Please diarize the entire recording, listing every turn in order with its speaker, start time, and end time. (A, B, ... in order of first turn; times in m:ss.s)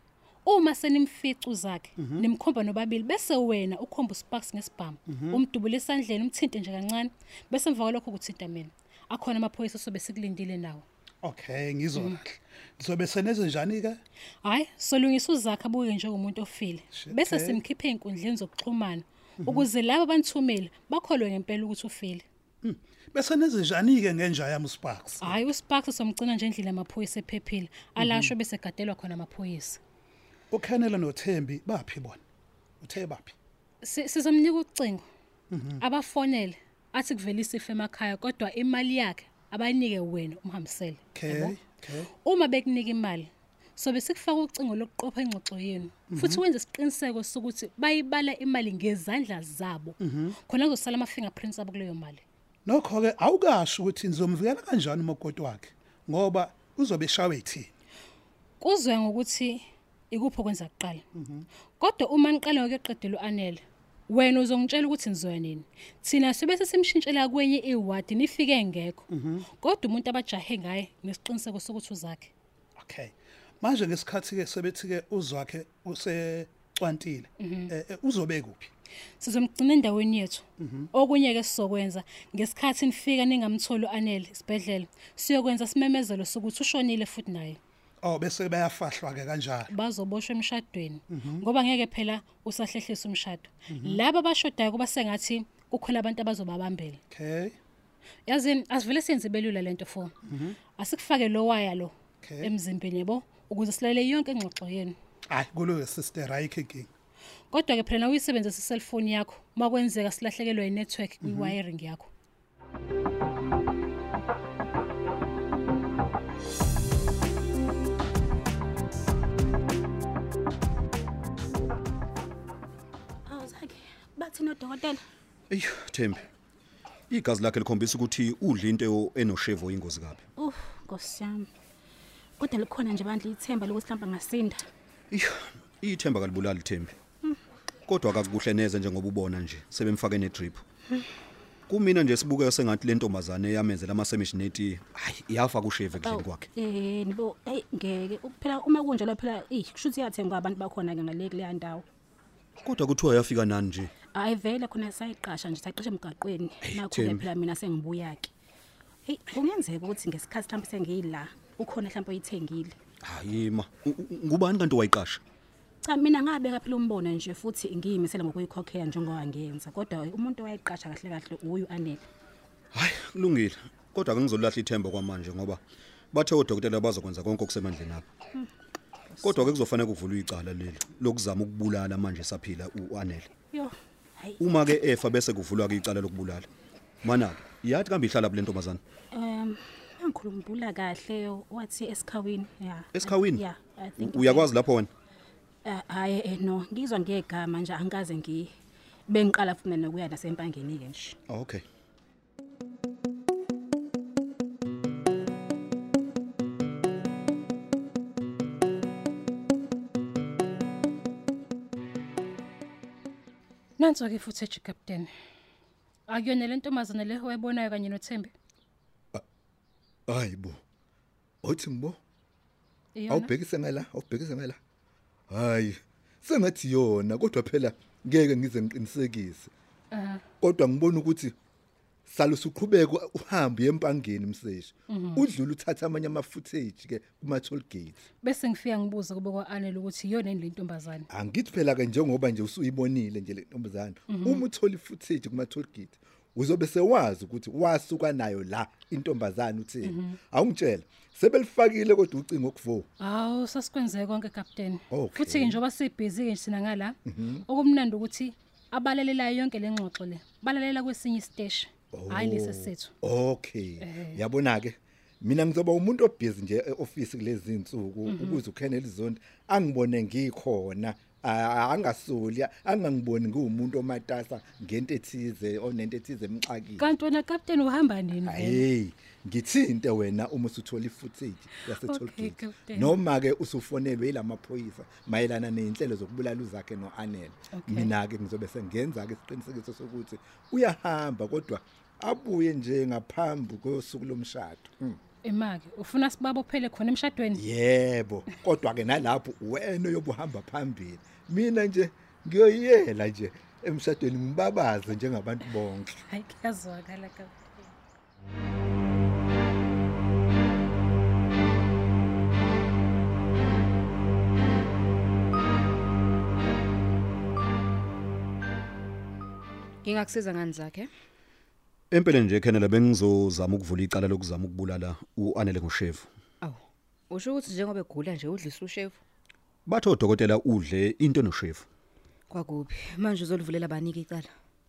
0:00.4-0:10.8 A
0:02.0-0:02.2 B
0:05.1-0:05.4 B
0:11.2-0:14.0 B
0:14.4-0:22.2 A
0:16.9-0:17.6 B
0:19.4-0:19.6 B
0:22.6-0:25.4 B
0:25.2-0:29.8 A
0:28.0-0:28.3 B
0:30.5-0:32.2 B
0:32.8-0:33.3 B
0:33.8-0:35.0 A
0:35.5-0:35.8 B
0:35.8-0:41.6 A
0:41.1-0:42.1 B
0:42.2-0:52.2 A
0:46.1-0:46.4 B
0:50.0-0:50.3 B
0:52.6-0:57.7 B
0:58.6-1:01.0 A
1:01.1-1:01.4 B
1:01.8-1:12.3 A
1:09.1-1:09.4 B
1:12.8-1:18.7 B
1:17.4-1:17.7 A
1:19.2-1:27.6 A
1:20.6-1:20.9 B
1:28.0-1:29.7 B
1:29.7-1:37.0 A
1:31.1-1:31.4 B
1:33.7-1:34.0 B
1:37.1-1:37.6 B
1:38.2-1:40.1 A
1:40.3-1:40.5 B
1:40.8-1:45.0 A
1:42.2-1:42.5 B
1:45.3-1:46.9 B
1:47.5-1:52.1 A
1:51.2-1:51.6 B
2:03.3-2:05.0 C
2:05.5-2:06.3 D
2:07.1-2:10.2 D
2:10.4-2:11.5 C
2:12.4-2:14.6 C
2:15.1-2:16.9 D
2:17.9-2:20.6 D
2:21.7-2:26.4 D
2:26.0-2:31.8 C
2:32.6-2:33.9 D
2:34.1-2:38.3 C
2:36.7-2:37.2 D
2:39.0-2:42.7 C
2:43.0-2:45.2 D
2:45.8-2:52.0 C
2:52.7-2:55.6 D
2:56.1-2:58.0 D
2:59.1-2:59.6 C
2:59.2-3:03.3 D
3:03.5-3:04.4 C
3:04.4-3:06.5 D
3:07.0-3:08.8 D
3:09.1-3:14.6 C
3:13.0-3:13.4 D
3:14.0-3:14.9 D
3:15.6-3:18.5 C
3:19.1-3:21.2 C
3:21.3-3:21.6 D
3:33.8-3:35.1 A
3:36.1-3:38.3 A
3:40.1-3:40.6 E
3:41.4-3:42.0 E
3:42.9-3:43.3 A
3:43.1-3:44.6 E
3:45.3-3:49.5 E
3:49.9-3:50.2 A
3:50.4-3:51.3 E
3:52.1-3:58.0 E
3:54.9-3:55.2 A
3:58.2-4:01.1 A
4:01.1-4:12.8 E
4:04.1-4:04.4 A
4:09.8-4:10.2 A
4:13.0-4:22.9 A
4:14.9-4:15.6 E
4:17.1-4:17.4 E
4:21.9-4:36.8 E
4:23.8-4:24.2 A
4:28.1-4:28.4 A
4:36.8-4:38.6 A
4:38.2-4:55.0 E
4:41.8-4:43.0 A
4:47.5-4:47.9 A
4:55.2-4:57.4 A
4:57.3-5:06.0 E
5:06.0-5:07.7 A
5:19.8-5:20.9 F
5:21.9-5:26.1 D
5:26.4-5:29.0 F
5:29.6-5:31.6 D
5:32.3-5:34.3 F